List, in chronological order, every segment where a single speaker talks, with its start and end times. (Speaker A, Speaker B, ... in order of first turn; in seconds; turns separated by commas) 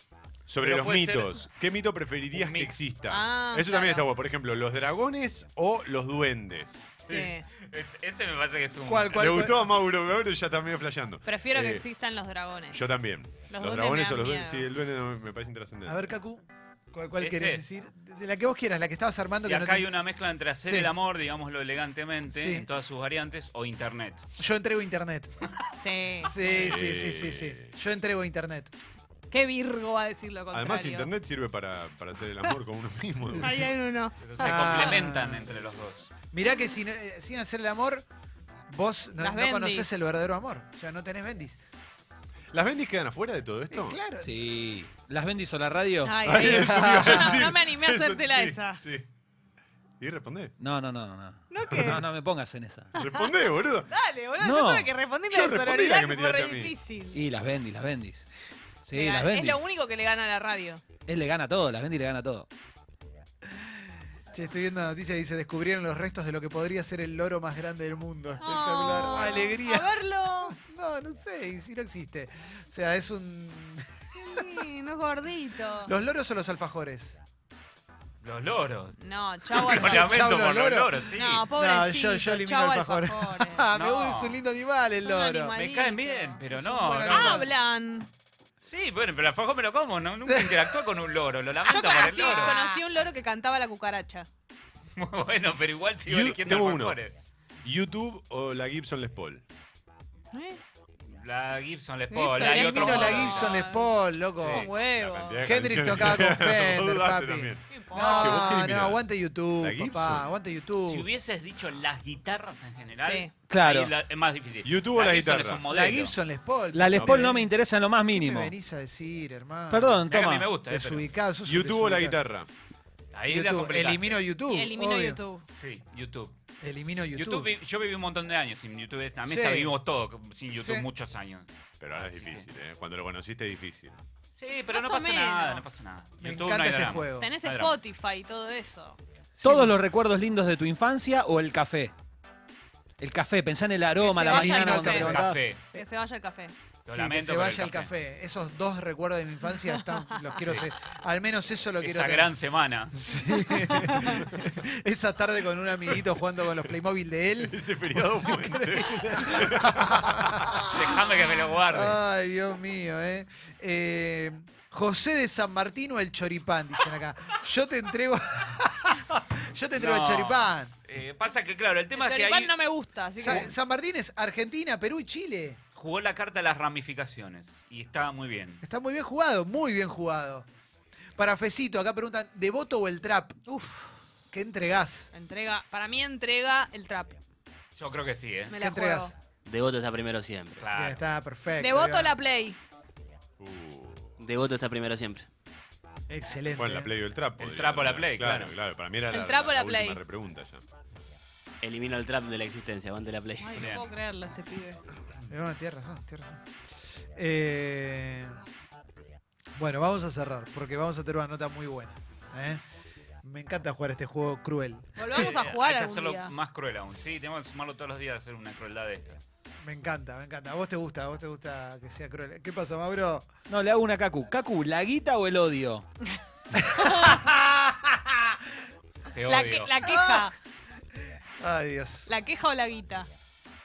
Speaker A: 0.5-6.9, Speaker B: 0.6-1.4, Speaker B: 2.3-2.9, Speaker C: 3.1-4.1, Speaker C: 7.0-7.5, Speaker B: 7.0-9.5, Speaker D: 8.9-9.7, Speaker A: 9.1-11.8, Speaker C: 11.2-12.9, Speaker A: 12.7-16.1, Speaker C: 13.5-14.7, Speaker D: 15.8-19.9, Speaker B: 17.2-17.6, Speaker B: 19.4-24.3, Speaker D: 20.6-20.9, Speaker D: 22.3-22.7, Speaker D: 24.4-25.4, Speaker C: 25.8-26.6, Speaker D: 26.2-28.7, Speaker A: 26.4-27.7, Speaker C: 29.3-31.1, Speaker A: 30.5-33.7, Speaker C: 33.4-34.9, Speaker B: 34.2-36.1, Speaker D: 34.4-35.6, Speaker D: 36.3-38.1, Speaker D: 38.7-41.6, Speaker C: 39.2-40.0, Speaker A: 42.5-44.0, Speaker D: 43.7-44.3, Speaker E: 44.2-46.3, Speaker C: 46.0-48.8, Speaker A: 46.2-49.1, Speaker D: 46.4-47.5, Speaker A: 50.0-50.5, Speaker E: 50.6-52.9, Speaker C: 51.5-52.0, Speaker A: 51.7-52.0, Speaker A: 52.9-53.9, Speaker C: 53.0-53.4, Speaker C: 53.9-57.2, Speaker E: 54.4-54.9, Speaker A: 55.3-56.7, Speaker E: 57.1-58.2, Speaker E: 58.9-59.6, Speaker C: 58.9-60.9, Speaker E: 61.1-62.5, Speaker D: 64.3-74.7, Speaker C: 68.4-70.6, Speaker C: 74.2-75.9, Speaker D: 75.8-77.2, Speaker B: 78.2-79.0, Speaker C: 79.0-80.3, Speaker B: 79.5-81.5, Speaker D: 79.7-81.0, Speaker C: 81.1-83.7, Speaker D: 81.5-85.5, Speaker B: 83.7-84.4, Speaker C: 85.0-86.4, Speaker B: 85.5-87.4, Speaker D: 86.5-87.5, Speaker C: 87.1-88.1, Speaker B: 88.6-92.6, Speaker D: 90.3-90.8, Speaker C: 91.7-94.3, Speaker B: 95.0-97.1, Speaker A: 96.1-97.0, Speaker A: 97.6-99.4, Speaker C: 100.3-100.6, Speaker B: 101.1-103.7, Speaker C: 102.1-105.5, Speaker D: 102.3-104.7, Speaker B: 104.4-105.3, Speaker A: 105.2-109.1, Speaker D: 105.4-111.1, Speaker C: 107.7-108.6, Speaker A: 109.6-110.3, Speaker B: 110.8-116.2, Speaker C: 113.0-113.3, Speaker E: 113.5-113.9, Speaker A: 114.6-115.7, Speaker D: 115.7-117.5, Speaker E: 116.7-118.5, Speaker A: 117.0-117.3, Speaker D: 118.1-120.0, Speaker E: 119.7-120.5, Speaker B: 120.1-121.1, Speaker D: 120.7-122.2, Speaker A: 121.5-122.5, Speaker B: 123.1-124.2, Speaker D: 123.3-125.2, Speaker C: 124.5-125.5, Speaker B: 125.6-126.3, Speaker D: 126.6-127.5, Speaker B: 127.2-132.5, Speaker D: 129.3-129.7, Speaker D: 130.6-130.8, Speaker A: 131.8-134.0, Speaker B: 134.3-137.8, Speaker C: 134.7-135.8, Speaker D: 136.2-137.3, Speaker C: 137.0-139.0, Speaker D: 139.4-139.8, Speaker E: 139.4-141.9, Speaker E: 143.0-145.5, Speaker C: 144.0-145.2, Speaker D: 144.3-145.2, Speaker B: 144.9-145.7, Speaker C: 145.7-146.5, Speaker B: 146.8-147.9, Speaker D: 146.9-152.3, Speaker B: 151.8-153.0, Speaker D: 152.9-160.8, Speaker C: 153.5-154.2, Speaker A: 154.1-154.5, Speaker A: 157.4-160.8, Speaker B: 160.6-162.0, Speaker D: 161.7-170.7, Speaker B: 169.8-172.5, Speaker C: 172.0-173.5, Speaker D: 173.2-175.6, Speaker B: 175.8-178.6, Speaker D: 178.6-180.5, Speaker D: 181.2-183.4, Speaker C: 183.5-184.0, Speaker D: 184.3-185.1, Speaker C: 185.1-187.2, Speaker B: 187.8-188.6, Speaker C: 188.5-189.1, Speaker D: 188.6-189.1, Speaker F: 189.4-190.7, Speaker B: 190.6-191.0, Speaker D: 190.7-192.1, Speaker C: 191.6-192.6, Speaker A: 193.4-194.2, Speaker F: 194.2-195.3, Speaker D: 196.1-196.9, Speaker A: 196.6-200.6, Speaker B: 197.4-198.5, Speaker C: 199.1-200.0, Speaker F: 201.6-203.7, Speaker C: 203.4-204.8, Speaker B: 203.5-203.9, Speaker D: 205.3-206.4, Speaker D: 207.2-208.4, Speaker D: 209.6-212.6, Speaker D: 213.2-215.2, Speaker C: 215.0-216.3, Speaker B: 215.1-219.2, Speaker D: 219.6-223.3, Speaker E: 223.5-225.9, Speaker D: 226.5-228.5, Speaker C: 226.7-227.2, Speaker B: 229.1-229.8, Speaker C: 229.3-230.3, Speaker D: 229.8-230.3, Speaker D: 231.0-232.1, Speaker C: 232.1-233.1